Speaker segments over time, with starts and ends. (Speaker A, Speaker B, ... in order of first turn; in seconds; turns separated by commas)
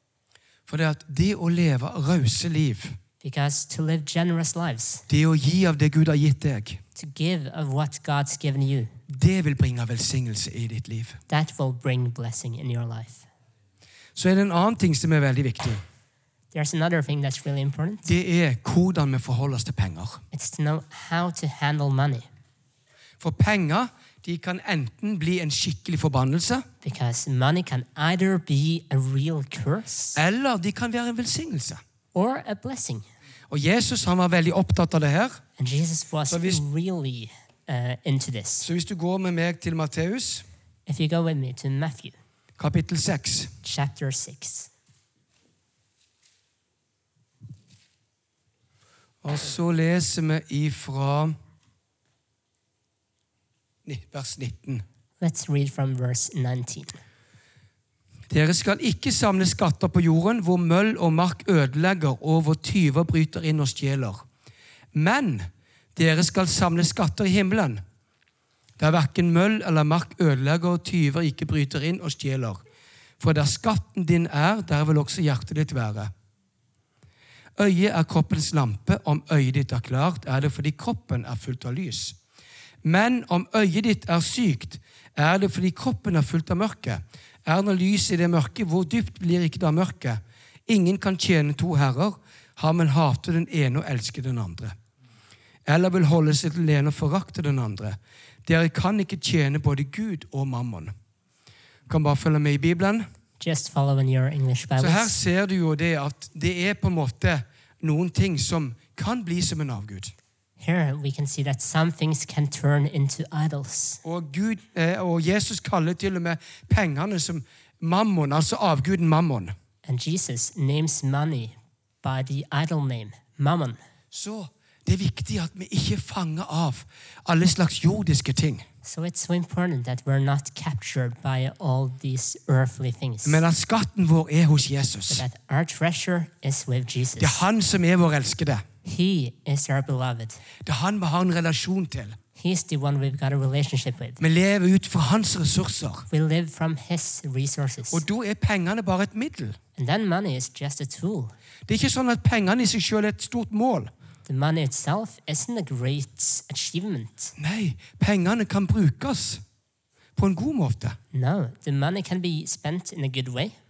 Speaker A: 0.7-3.0, Speaker B: 3.2-5.0, Speaker A: 5.1-6.8, Speaker B: 7.0-8.9, Speaker A: 9.1-11.2, Speaker B: 11.3-13.3, Speaker A: 14.2-15.8, Speaker B: 16.5-18.1, Speaker A: 18.1-20.2, Speaker B: 20.3-22.3, Speaker A: 23.2-26.7, Speaker B: 26.8-30.2, Speaker A: 30.1-31.8, Speaker B: 32.1-33.0, Speaker A: 33.5-35.4, Speaker B: 35.6-38.7, Speaker A: 36.3-36.6, Speaker A: 38.6-40.5, Speaker B: 40.9-42.1, Speaker A: 42.6-43.5, Speaker B: 43.6-44.7, Speaker A: 49.2-51.4, Speaker A: 53.9-54.8, Speaker B: 55.2-57.0, Speaker A: 58.3-64.2, Speaker A: 64.9-67.8, Speaker A: 68.8-72.6, Speaker A: 73.2-76.1, Speaker A: 77.6-82.2, Speaker A: 82.8-94.8, Speaker A: 95.7-100.9, Speaker A: 101.9-103.0, Speaker B: 103.4-105.2, Speaker A: 104.8-110.1, Speaker B: 110.6-114.0, Speaker A: 114.0-119.5, Speaker B: 119.8-123.8, Speaker A: 124.1-128.7, Speaker B: 128.8-133.4, Speaker A: 133.2-135.2, Speaker B: 135.1-137.4, Speaker A: 137.2-138.7, Speaker B: 138.8-140.4, Speaker A: 140.6-142.2, Speaker B: 142.4-144.2, Speaker A: 144.2-146.1, Speaker B: 146.1-148.1, Speaker A: 147.9-149.6, Speaker B: 149.8-151.3, Speaker A: 151.7-153.9, Speaker B: 154.3-157.3, Speaker A: 157.4-159.4, Speaker A: 160.2-161.0, Speaker B: 161.1-163.6